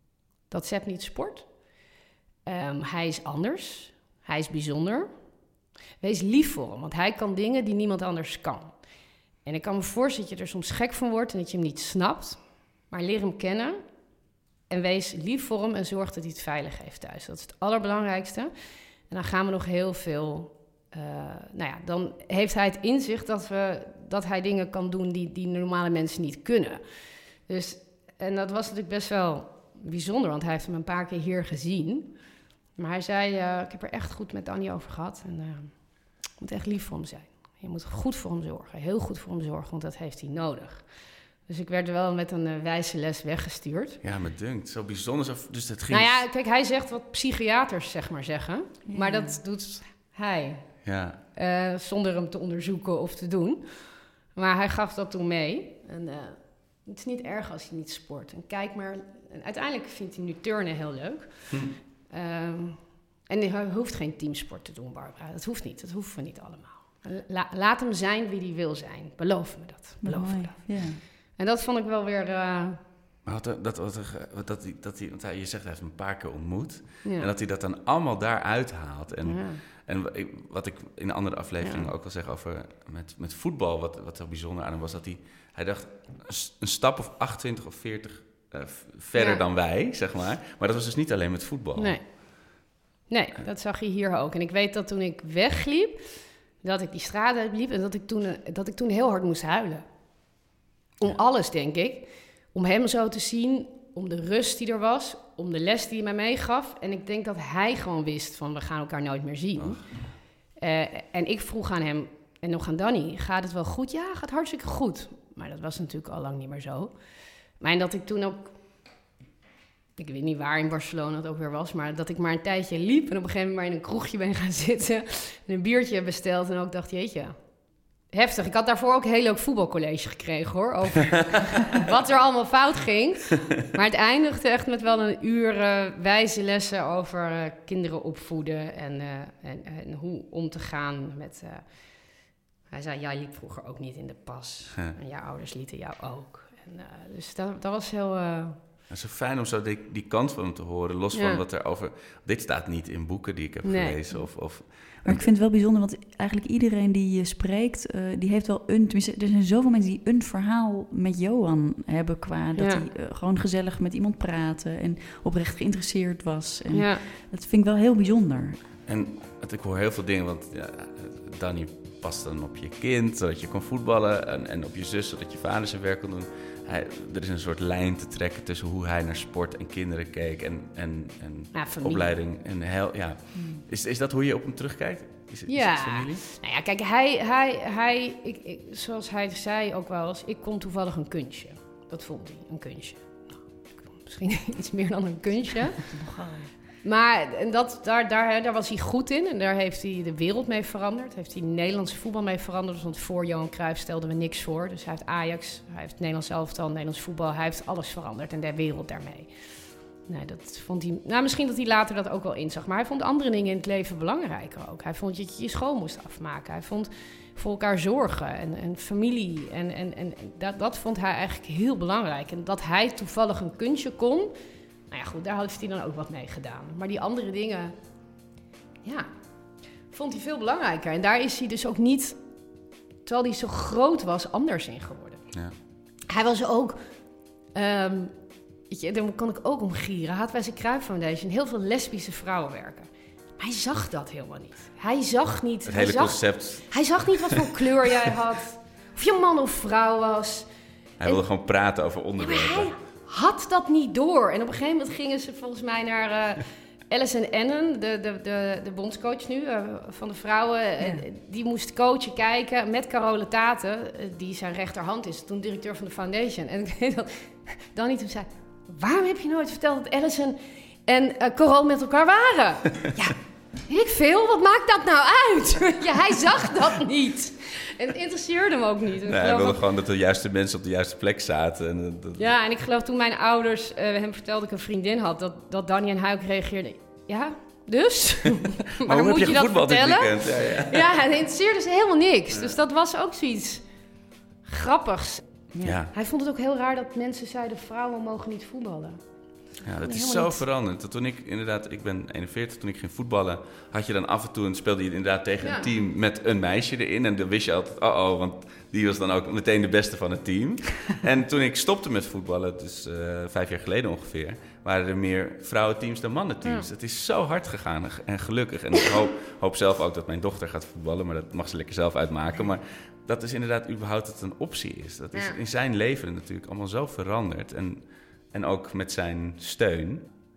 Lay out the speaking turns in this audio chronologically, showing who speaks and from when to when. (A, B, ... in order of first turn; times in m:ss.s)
0:00.5-0:01.5 A
0:02.4-0:05.1 A
0:06.0-0:08.7 A
0:09.4-0:13.8 A
0:14.7-0:18.5 A
0:19.1-0:26.8 A
0:27.4-0:32.1 A
0:32.8-0:35.8 A
0:36.4-0:40.9 A
0:41.4-0:44.0 A
0:44.0-0:46.2 B
0:45.9-0:50.7 A
0:48.9-0:49.4 C
0:50.8-0:51.2 B
0:51.3-1:12.8 A
1:01.5-1:01.8 B
1:10.0-1:11.0 C
1:13.2-1:32.2 B
1:17.0-1:17.3 A
1:19.2-1:19.6 A
1:21.6-1:21.9 A
1:29.2-1:29.4 A
1:31.8-1:39.8 A
1:41.0-1:57.0 A
1:49.6-1:50.1 B
1:57.6-1:58.5 A
2:00.0-2:07.4 A
2:08.1-2:21.7 A
2:22.7-2:28.6 A
2:28.9-2:35.2 B
2:31.1-2:31.4 A
2:33.6-2:34.2 A
2:35.0-2:48.6 C
2:42.5-2:42.8 A
2:46.7-2:47.0 A
2:48.8-3:06.2 B
3:01.5-3:02.1 A
3:03.3-3:03.6 C
3:05.5-3:15.8 A
3:15.9-3:16.5 C
3:16.8-3:29.3 A
3:30.0-3:44.3 A
3:44.9-3:47.7 A
3:48.8-3:49.1 A
3:49.9-3:52.2 A
3:53.0-3:55.2 A
3:56.1-3:56.8 A
3:57.5-3:58.1 A
3:58.7-4:10.5 A
4:05.7-4:07.1 B
4:11.0-4:12.7 B
4:12.2-4:33.2 A
4:20.8-4:21.0 C
4:33.7-4:39.6 A
4:39.1-4:42.3 B
4:42.2-4:53.7 A
4:48.8-4:50.9 B
4:54.4-4:59.0 A
4:55.5-4:55.8 C
4:55.6-4:55.9 B
4:59.6-5:30.1 B
4:59.8-5:00.4 A
5:05.4-5:05.7 A
5:16.4-5:16.7 A